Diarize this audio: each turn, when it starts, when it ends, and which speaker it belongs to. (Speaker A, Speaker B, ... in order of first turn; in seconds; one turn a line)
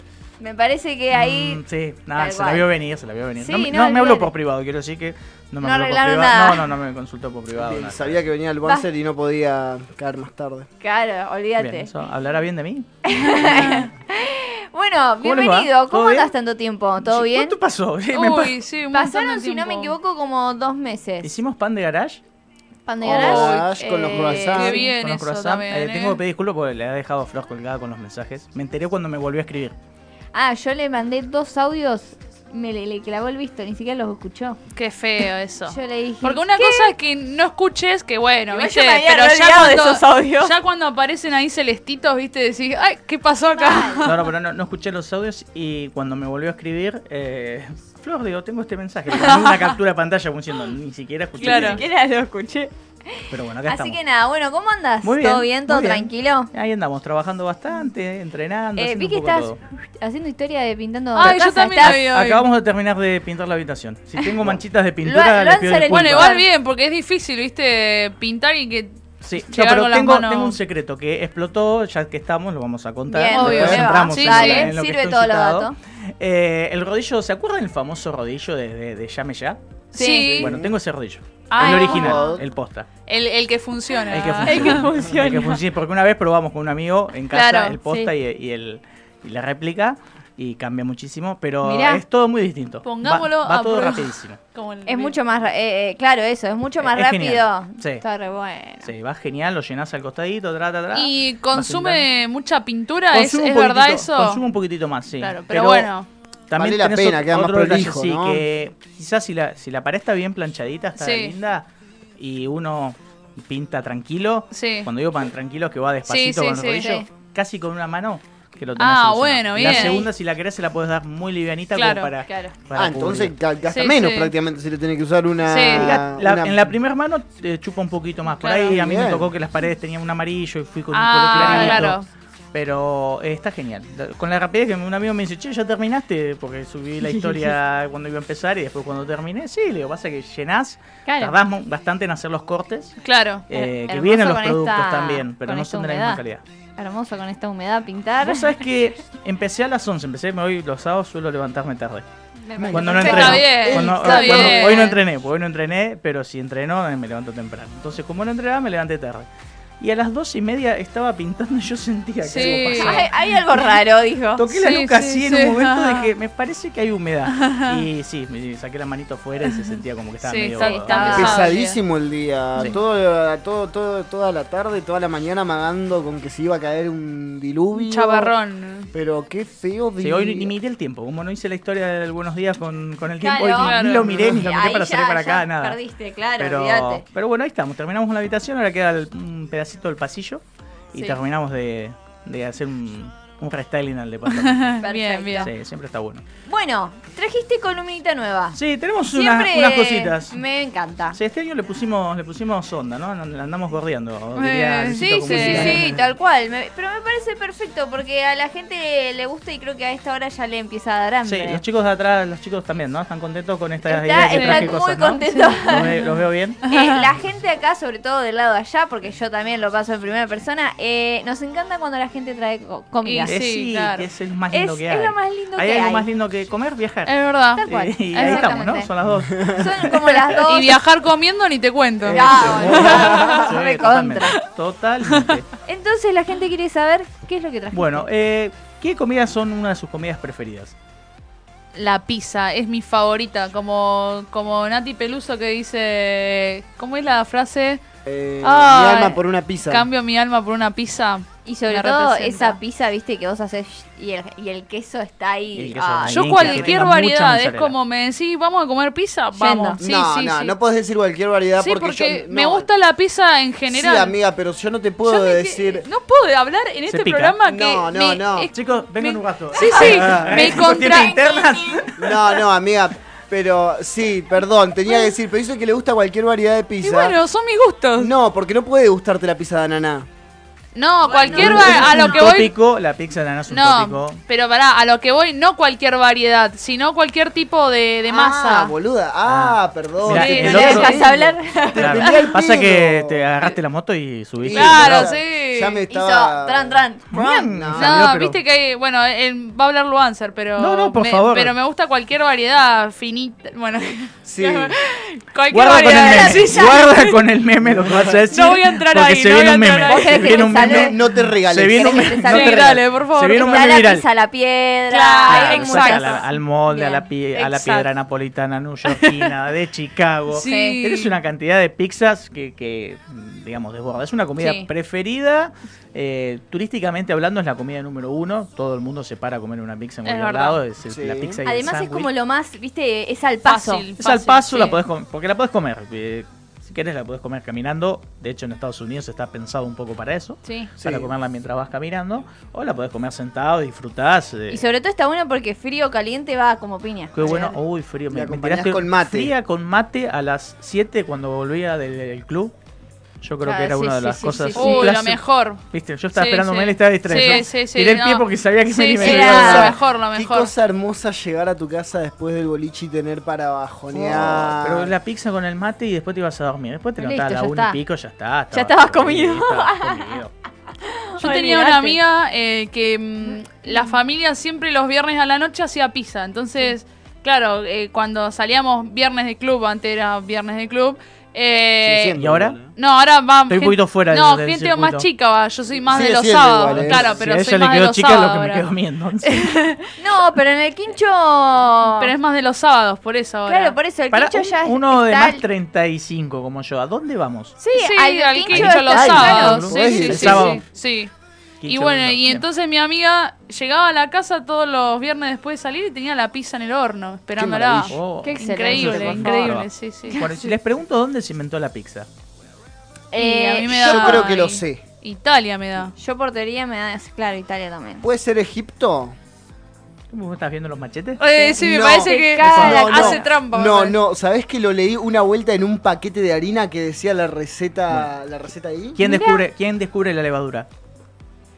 Speaker A: 0.4-1.6
Speaker B: 1.1-8.2
Speaker A: 2.2-2.7
Speaker A: 3.4-4.3
Speaker A: 5.6-6.7
Speaker C: 7.5-10.7
Speaker A: 10.8-11.9
Speaker B: 11.6-13.8
Speaker A: 13.0-17.6
Speaker D: 13.6-13.8
Speaker B: 15.2-16.3
Speaker B: 17.0-18.6
Speaker D: 18.1-19.9
Speaker A: 18.9-21.3
Speaker B: 21.2-22.2
Speaker A: 22.9-24.9
Speaker C: 23.0-24.8
Speaker B: 23.1-23.6
Speaker D: 24.3-26.2
Speaker B: 24.8-29.8
Speaker A: 30.3-34.6
Speaker D: 34.8-44.3
Speaker A: 35.7-36.9
Speaker A: 38.5-40.6
Speaker A: 43.5-44.1
Speaker B: 44.0-51.8
Speaker D: 49.1-49.8
Speaker D: 51.4-51.8
Speaker A: 51.4-56.5
Speaker B: 53.3-54.0
Speaker B: 55.0-59.6
Speaker A: 58.8-62.0
Speaker D: 61.1-62.5
Speaker B: 61.8-66.4
Speaker A: 65.0-66.5
Speaker D: 65.9-70.6
Speaker B: 69.2-79.6
Speaker A: 73.1-75.8
Speaker D: 73.3-74.7
Speaker C: 73.4-73.9
Speaker A: 79.9-80.4
Speaker D: 79.9-80.5
Speaker B: 80.2-82.9
Speaker C: 80.3-80.7
Speaker D: 81.5-82.3
Speaker A: 81.6-82.4
Speaker D: 83.1-84.9
Speaker B: 84.1-94.4
Speaker A: 84.4-85.6
Speaker D: 87.3-87.8
Speaker A: 87.8-88.1
Speaker A: 91.6-92.0
Speaker D: 92.8-95.2
Speaker A: 94.9-98.9
Speaker B: 96.8-98.0
Speaker B: 98.8-102.1
Speaker D: 100.9-104.4
Speaker B: 103.1-105.9
Speaker D: 105.2-106.1
Speaker B: 106.5-111.7
Speaker C: 106.5-108.5
Speaker D: 111.0-111.3
Speaker B: 112.2-123.3
Speaker D: 114.5-114.9
Speaker D: 116.1-117.0
Speaker D: 118.8-120.1
Speaker D: 121.8-122.1
Speaker A: 122.2-122.5
Speaker C: 122.7-126.8
Speaker D: 123.7-124.3
Speaker D: 125.5-126.0
Speaker B: 125.7-132.0
Speaker D: 128.3-128.8
Speaker C: 128.7-129.3
Speaker D: 130.9-132.1
Speaker A: 131.4-131.8
Speaker B: 132.5-146.4
Speaker A: 141.1-141.4
Speaker D: 143.0-143.4
Speaker A: 143.5-146.2
Speaker A: 146.8-148.6
Speaker B: 148.2-152.1
Speaker A: 152.5-155.0
Speaker C: 152.6-154.8
Speaker B: 152.7-159.3
Speaker D: 152.9-155.0
Speaker B: 159.8-163.2
Speaker D: 162.2-163.1
Speaker A: 162.4-164.5
Speaker B: 164.4-171.5
Speaker D: 164.6-166.1
Speaker D: 167.3-167.9
Speaker D: 170.2-171.8
Speaker A: 170.6-171.6
Speaker C: 171.1-178.3
Speaker D: 177.8-178.9
Speaker C: 178.9-180.5
Speaker B: 180.0-185.8
Speaker A: 183.2-187.0
Speaker D: 183.5-184.1
Speaker C: 184.0-184.4
Speaker B: 186.4-190.4
Speaker B: 190.9-194.8
Speaker A: 190.9-191.2
Speaker D: 194.3-195.5
Speaker A: 194.8-195.5
Speaker B: 195.4-196.2
Speaker A: 196.5-201.2
Speaker B: 198.5-200.4
Speaker B: 201.1-206.0
Speaker D: 204.3-205.8
Speaker A: 205.0-211.6
Speaker B: 211.2-216.6
Speaker A: 213.9-216.0
Speaker D: 214.3-214.7
Speaker D: 215.3-217.1
Speaker A: 216.7-223.4
Speaker D: 223.0-224.1
Speaker B: 223.2-230.4
Speaker A: 224.5-226.1
Speaker D: 227.1-228.6
Speaker A: 227.6-228.9
Speaker A: 229.4-230.8
Speaker D: 230.5-233.5
Speaker C: 232.0-233.3
Speaker A: 232.1-234.4
Speaker B: 232.5-235.5
Speaker A: 235.7-238.1
Speaker B: 237.7-240.7
Speaker D: 241.7-247.8
Speaker C: 248.1-249.9
Speaker D: 248.4-252.6
Speaker A: 251.4-256.8
Speaker B: 255.6-257.8
Speaker D: 256.1-260.5
Speaker A: 259.4-259.8
Speaker C: 259.8-262.7
Speaker D: 261.6-264.2
Speaker C: 263.7-265.9
Speaker D: 265.1-271.2
Speaker B: 266.9-267.4
Speaker C: 267.4-268.5
Speaker B: 268.5-272.4
Speaker C: 269.8-270.7
Speaker A: 270.7-271.8
Speaker C: 272.0-277.2
Speaker D: 276.8-278.1
Speaker C: 278.0-280.1
Speaker D: 280.8-282.5
Speaker A: 281.0-282.1
Speaker C: 281.2-282.2
Speaker B: 281.4-284.2
Speaker D: 283.5-288.7
Speaker C: 288.1-293.6
Speaker B: 289.3-290.9
Speaker D: 290.1-291.0
Speaker A: 290.3-292.3
Speaker B: 291.7-295.1
Speaker C: 294.4-298.1
Speaker D: 294.5-295.8
Speaker A: 295.9-297.0
Speaker B: 297.1-298.4
Speaker D: 297.8-307.2
Speaker B: 300.6-301.5
Speaker C: 304.2-304.8
Speaker B: 305.5-314.1
Speaker A: 305.8-306.9
Speaker C: 307.6-308.4
Speaker D: 308.3-310.6
Speaker A: 309.9-311.0
Speaker C: 310.6-312.2
Speaker A: 311.7-312.8
Speaker D: 312.3-313.8
Speaker A: 313.3-317.1
Speaker D: 314.9-316.2
Speaker B: 315.3-332.1
Speaker D: 317.4-317.9
Speaker D: 318.9-319.3
Speaker D: 320.3-321.1
Speaker A: 320.4-320.8
Speaker A: 324.4-324.7
Speaker D: 330.1-330.6
Speaker C: 330.9-331.4
Speaker A: 331.4-333.9
Speaker D: 333.4-334.8
Speaker B: 334.0-344.6
Speaker A: 340.4-340.7
Speaker C: 340.8-341.1
Speaker A: 344.5-347.5
Speaker B: 347.1-352.5
Speaker C: 348.1-349.3
Speaker B: 353.2-359.8
Speaker A: 353.4-354.9
Speaker D: 354.6-355.6
Speaker D: 356.1-360.5
Speaker A: 357.1-357.5
Speaker A: 359.0-359.8
Speaker C: 359.2-364.9
Speaker A: 363.9-364.5
Speaker B: 364.2-370.3
Speaker A: 367.0-367.8
Speaker A: 368.5-370.2
Speaker A: 370.8-372.0
Speaker D: 371.2-382.2
Speaker A: 373.7-374.0
Speaker C: 381.8-382.7
Speaker B: 382.1-382.6
Speaker D: 382.8-388.7
Speaker B: 383.5-385.1
Speaker C: 385.9-387.2
Speaker B: 386.7-389.5
Speaker D: 389.2-389.9
Speaker A: 390.0-392.1
Speaker D: 392.0-393.8
Speaker A: 393.5-395.4
Speaker B: 394.1-397.6
Speaker A: 397.6-400.5
Speaker D: 397.7-401.1
Speaker B: 398.5-400.6
Speaker C: 398.9-400.6
Speaker B: 401.6-402.5
Speaker D: 401.6-410.3
Speaker C: 407.4-408.0
Speaker B: 407.9-412.1
Speaker A: 408.2-409.4
Speaker A: 410.1-410.5
Speaker A: 413.1-414.3
Speaker D: 413.1-415.9
Speaker C: 413.6-414.8
Speaker A: 416.0-418.1
Speaker C: 418.0-419.2
Speaker B: 420.1-421.2
Speaker D: 421.2-424.0
Speaker A: 421.3-423.3
Speaker C: 421.6-429.0
Speaker B: 422.4-422.8
Speaker B: 429.0-430.7
Speaker A: 429.0-429.4